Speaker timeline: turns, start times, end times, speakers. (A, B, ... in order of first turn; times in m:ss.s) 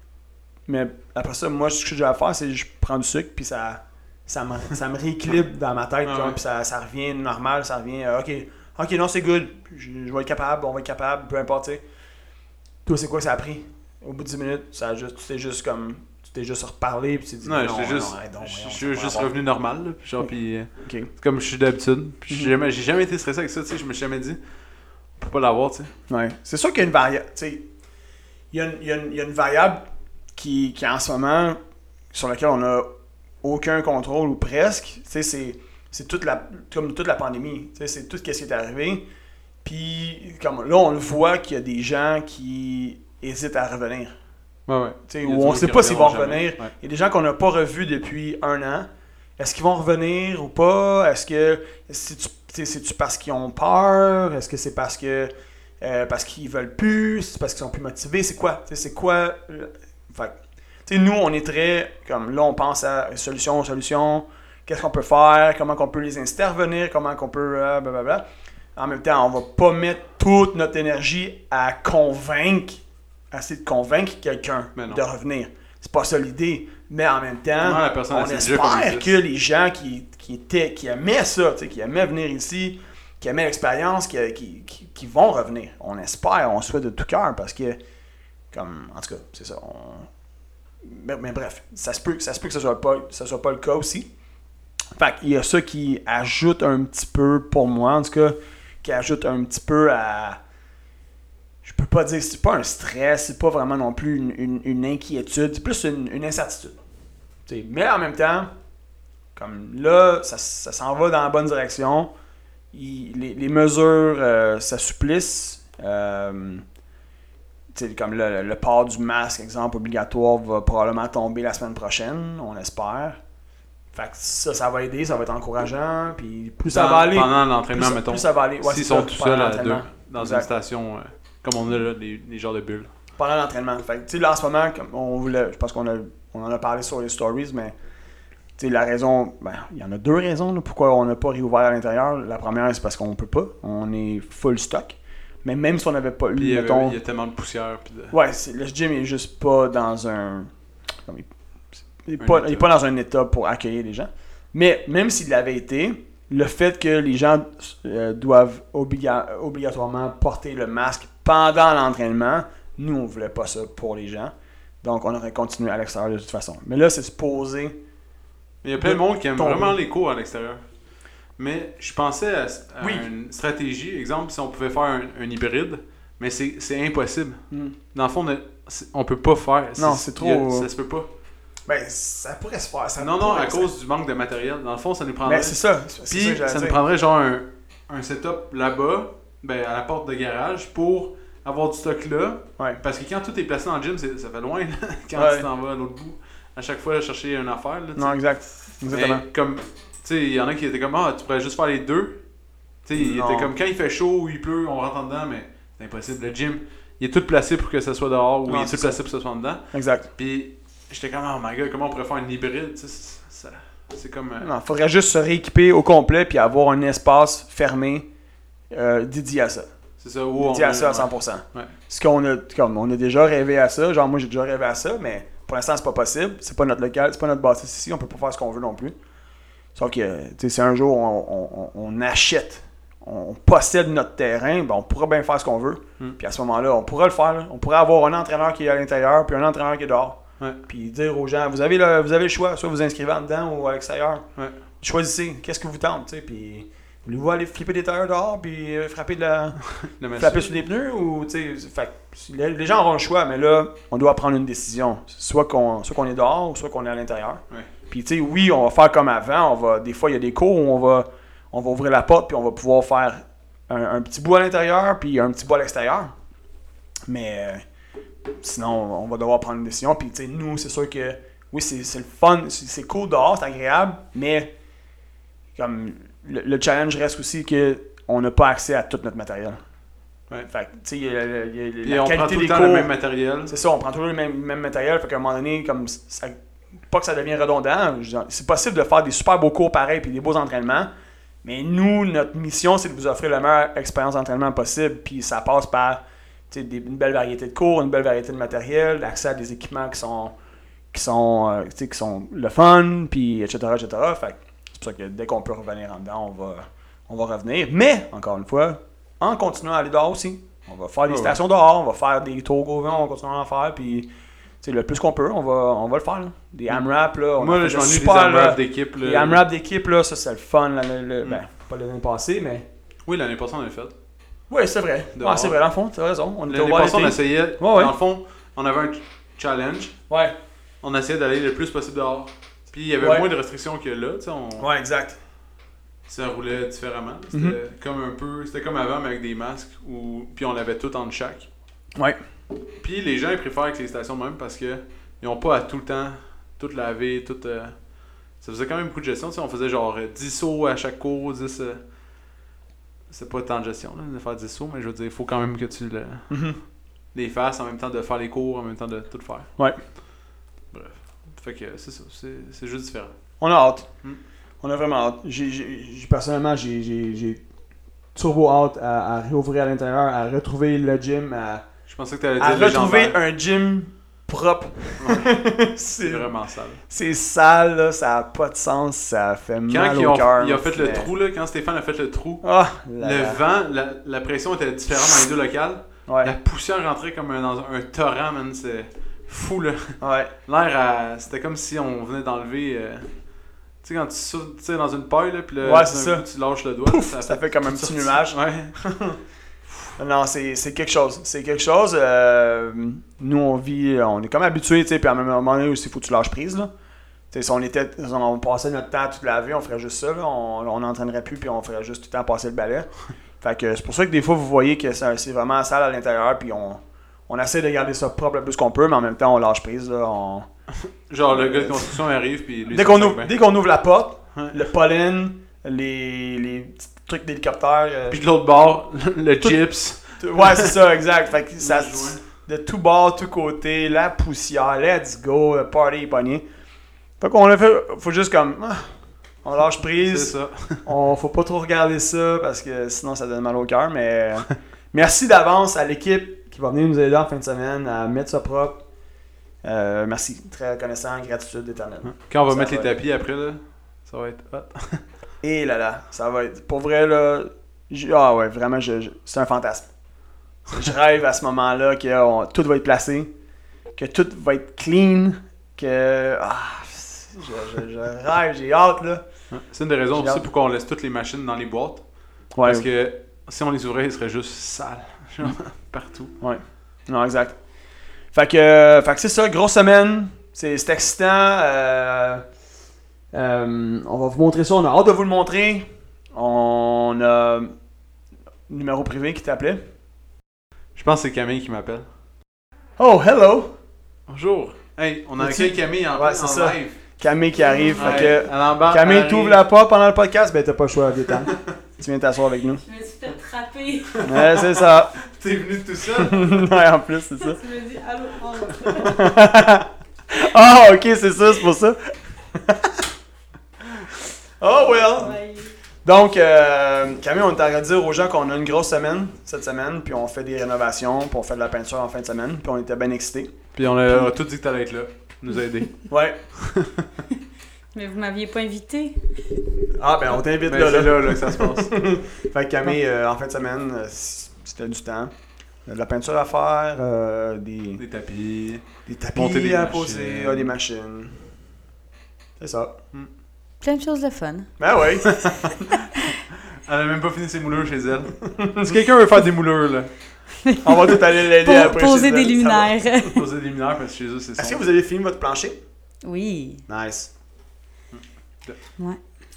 0:00.6-0:11.8 A
0:06.0-0:06.4 B
0:12.8-0:19.3 A
0:17.4-0:24.4 B
0:20.2-0:21.1 A
0:22.3-0:22.5 A
0:25.2-0:25.9 B
0:26.1-0:27.6 A
0:28.5-0:31.6 A
0:32.1-0:32.9 A
0:33.4-0:39.0 A
0:39.6-0:44.2 A
0:44.7-0:46.7 B
0:45.1-1:08.2 A
1:08.7-1:27.8 A
1:14.8-1:15.0 B
1:17.6-1:19.2 B
1:28.5-1:30.1 A
1:30.8-1:34.1 A
1:34.9-1:40.4 A
1:41.6-1:46.8 A
1:47.4-1:48.5 A
1:49.4-1:52.1 A
1:52.7-1:56.6 A
1:57.7-2:03.2 A
2:03.9-2:10.5 A
2:06.7-2:12.9 B
2:13.2-2:17.7 A
2:18.6-2:27.0 A
2:26.4-2:28.2 B
2:28.1-2:30.5 A
2:32.0-2:47.8 A
2:32.2-2:32.7 B
2:48.6-2:50.6 B
2:48.8-2:49.8 A
2:51.4-3:01.1 B
2:52.8-2:53.1 A
2:57.5-2:57.8 A
2:59.8-3:00.7 A
3:01.6-3:03.7 A
3:03.0-3:05.6 B
3:05.2-3:06.8 A
3:06.1-3:18.2 B
3:15.1-3:15.4 A
3:18.0-3:19.2 A
3:18.9-3:22.2 B
3:22.8-3:34.5 B
3:23.0-3:23.5 A
3:28.5-3:29.0 A
3:29.7-3:30.1 A
3:34.4-3:38.1 A
3:38.7-3:39.7 A
3:40.0-3:41.7 B
3:40.4-3:49.0 A
3:49.7-4:04.2 A
4:04.8-4:09.6 A
4:09.6-4:10.5 B
4:10.2-4:26.1 A
4:27.1-4:27.6 A
4:28.4-4:34.5 A
4:35.6-4:39.6 A
4:40.4-4:42.9 A
4:41.8-4:43.5 B
4:43.5-4:46.4 A
4:46.9-4:50.9 A
4:51.4-5:00.4 A
5:00.9-5:14.1 A
5:11.1-5:11.4 B
5:14.6-5:22.6 A
5:17.4-5:19.4 B
5:23.1-5:23.9 B
5:24.5-5:27.9 A
5:25.2-5:25.6 B
5:26.5-5:30.0 B
5:30.1-5:30.4 A
5:30.8-5:34.7 B
5:33.0-5:33.3 A
5:34.6-5:35.2 A
5:36.1-5:41.5 B
5:42.8-5:47.8 B
5:48.4-5:51.8 B
5:53.1-5:56.3 B
5:56.3-5:56.6 A
5:57.1-5:59.5 B
6:00.7-6:03.1 B
6:03.4-6:03.9 A
6:04.6-6:07.4 A
6:08.1-6:11.6 A
6:11.9-6:13.2 B
6:12.4-6:16.3 A
6:15.0-6:15.4 B
6:16.0-6:16.8 B
6:16.9-6:21.1 A
6:19.7-6:22.4 B
6:22.4-6:23.4 A
6:23.0-6:33.1 B
6:26.1-6:26.3 A
6:30.0-6:30.3 A
6:33.8-6:38.8 B
6:35.6-6:36.2 A
6:36.8-6:39.2 A
6:40.0-6:46.7 A
6:47.3-6:52.9 A
6:53.4-7:00.4 A
7:01.1-7:03.3 B
7:01.3-7:02.0 A
7:02.7-7:08.2 A
7:04.4-7:04.6 B
7:08.1-7:10.8 B
7:10.2-7:16.4 A
7:11.6-7:12.2 B
7:17.2-7:18.9 A
7:19.4-7:28.8 A
7:20.0-7:20.9 B
7:29.6-7:33.0 A
7:32.0-7:35.0 B
7:35.4-7:39.9 A
7:40.7-7:43.3 A
7:43.9-7:49.2 A
7:49.5-7:52.0 B
7:50.1-7:50.4 A
7:52.5-7:52.8 A
7:52.6-7:56.3 B
7:56.4-7:57.6 A
7:58.3-8:02.4 A
8:03.3-8:07.7 A
8:08.7-8:09.8 A
8:11.0-8:12.0 B
8:13.0-8:13.7 A
8:14.3-8:17.0 B
8:15.4-8:22.8 A
8:18.0-8:19.6 B
8:22.8-8:24.3 C
8:24.1-8:26.7 B
8:24.2-8:25.2 A
8:26.2-8:27.6 A
8:27.4-8:29.2 C
8:29.0-8:33.1 A
8:34.6-8:35.4 A
8:34.9-8:35.7 C
8:36.0-8:43.5 A
8:43.7-8:47.1 B
8:46.1-8:46.4 A
8:47.9-8:49.3 C
8:50.0-8:55.3 A
8:50.6-8:51.9 B
8:55.9-8:58.0 A
8:58.0-9:00.7 B
8:59.1-9:01.5 A
9:02.6-9:02.9 A
9:03.8-9:04.7 C
9:04.8-9:05.8 A
9:05.2-9:05.7 B
9:06.8-9:10.1 B
9:08.4-9:09.0 A
9:10.6-9:13.4 C
9:10.8-9:13.0 A
9:13.3-9:14.8 B
9:14.6-9:15.8 A
9:16.2-9:16.8 C
9:16.9-9:17.3 A
9:18.1-9:18.8 B